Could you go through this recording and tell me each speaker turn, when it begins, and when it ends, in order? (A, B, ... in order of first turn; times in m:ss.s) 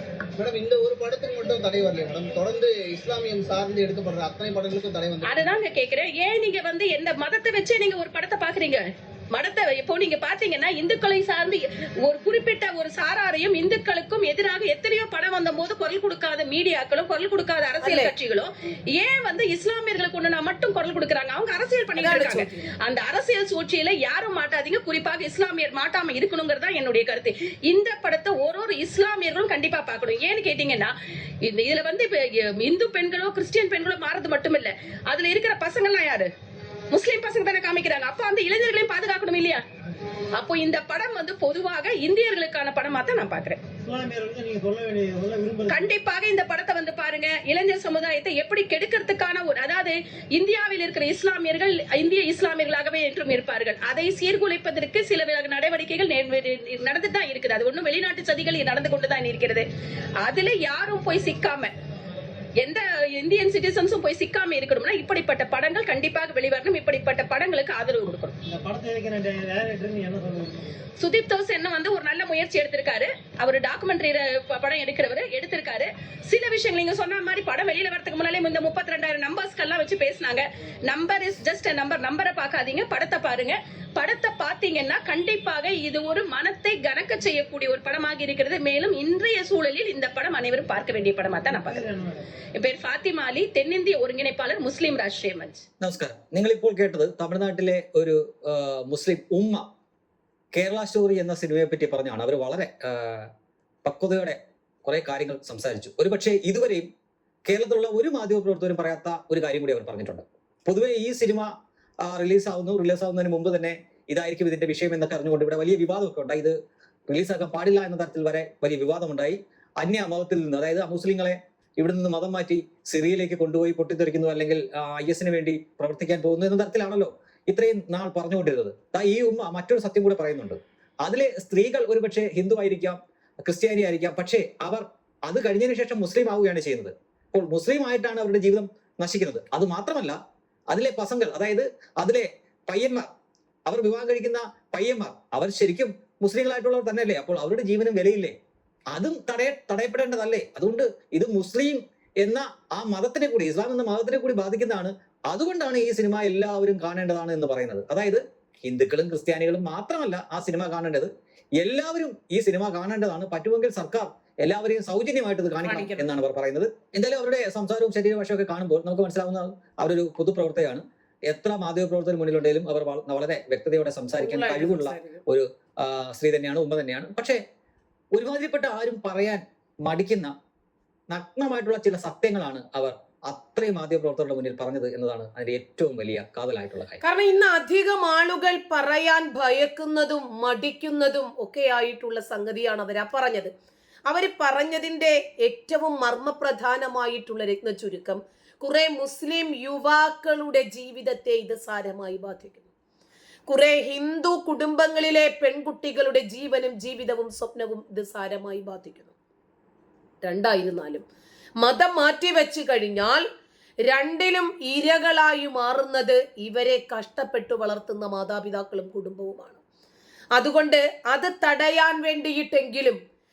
0:00.4-0:05.4 A
0:05.2-0:36.3 B
0:17.8-0:18.1 C
0:22.0-0:22.7 C
0:36.9-0:39.6 B
0:40.4-0:43.6 B
0:43.8-0:45.8 D
0:45.7-0:59.6 B
1:00.2-1:01.7 B
1:02.6-1:08.3 B
1:08.4-1:10.7 D
1:11.0-1:31.9 B
1:31.5-1:32.3 D
1:32.6-1:35.6 B
1:35.8-1:39.7 E
1:40.5-1:43.3 E
1:43.8-1:46.9 E
1:47.4-1:51.5 E
1:52.0-1:56.5 E
1:57.1-2:20.2 E
2:20.7-2:23.1 E
2:23.7-2:28.3 E
2:28.9-2:57.4 E
2:45.6-2:46.1 C
2:54.2-2:55.2 C
2:58.1-3:00.3 E
3:01.1-3:07.0 E
3:07.0-3:13.5 C
3:14.1-3:22.7 C
3:23.5-3:29.1 C
3:30.2-3:31.0 C
3:31.6-3:33.2 C
3:33.9-3:39.6 C
3:40.4-3:43.0 C